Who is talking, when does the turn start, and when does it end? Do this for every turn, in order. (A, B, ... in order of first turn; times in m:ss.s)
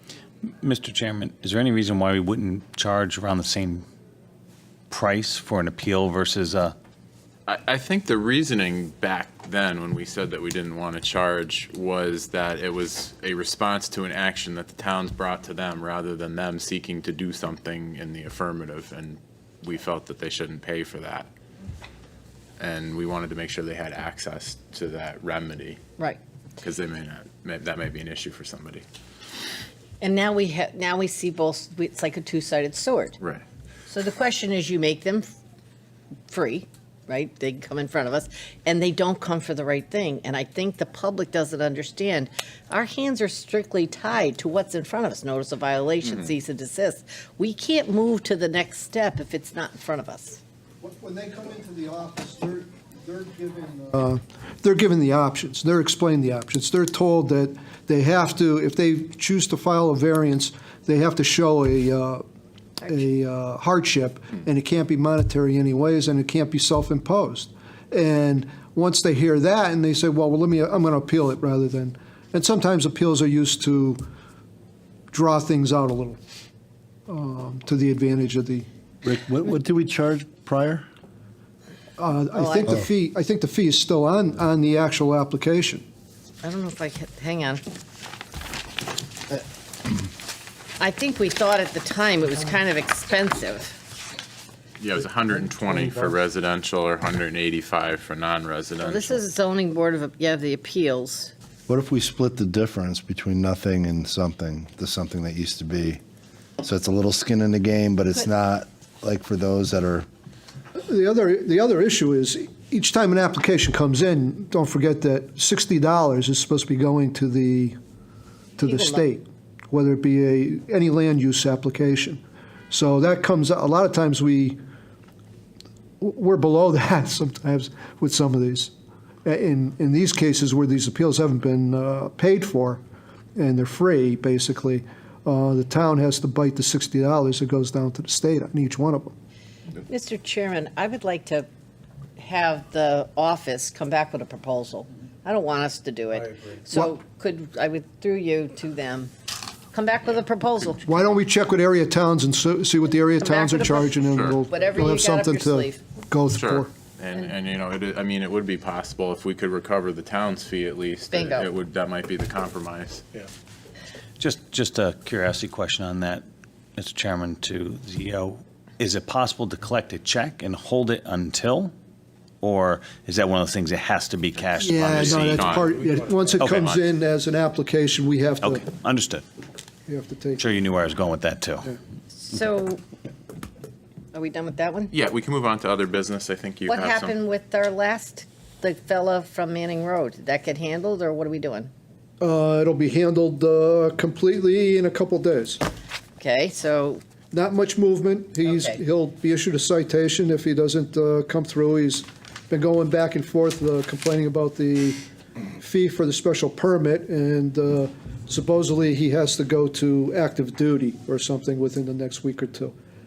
0:00.5-0:03.8 A
0:04.9-0:06.8 A
0:07.5-0:21.3 B
0:22.6-0:25.8 B
0:26.6-0:28.8 B
0:30.0-0:33.2 C
0:33.9-0:35.3 C
0:36.3-0:50.4 C
0:50.8-1:02.2 D
1:02.8-1:14.0 D
1:15.1-1:16.2 D
1:17.1-1:18.7 D
1:19.0-1:20.8 E
1:22.0-1:25.8 D
1:22.3-1:22.7 C
1:26.4-1:27.6 C
1:30.8-1:33.8 C
1:34.8-1:39.2 B
1:38.8-1:41.3 C
1:41.7-1:46.0 E
1:46.6-1:50.1 E
1:50.8-1:57.8 D
1:58.6-1:59.1 C
1:58.6-2:04.6 D
2:06.0-2:08.7 D
2:09.2-2:12.8 D
2:13.4-2:19.1 D
2:19.8-2:21.5 C
2:22.2-2:29.1 C
2:29.7-2:31.1 C
2:30.8-2:36.7 D
2:33.2-2:35.8 C
2:34.0-2:34.4 B
2:36.3-2:43.0 B
2:41.1-2:41.5 C
2:44.2-2:46.2 A
2:46.8-2:51.7 A
2:52.4-2:55.6 A
2:54.6-2:58.6 D
2:54.9-2:56.8 B
2:58.4-2:59.2 A
2:59.9-3:00.4 D
3:00.4-3:01.6 A
3:02.1-3:02.8 C
3:04.1-3:04.9 C
3:04.9-3:07.1 B
3:06.7-3:11.7 C
3:12.2-3:15.6 D
3:16.2-3:17.0 C
3:17.3-3:25.0 D
3:18.4-3:18.8 C
3:25.6-3:32.7 D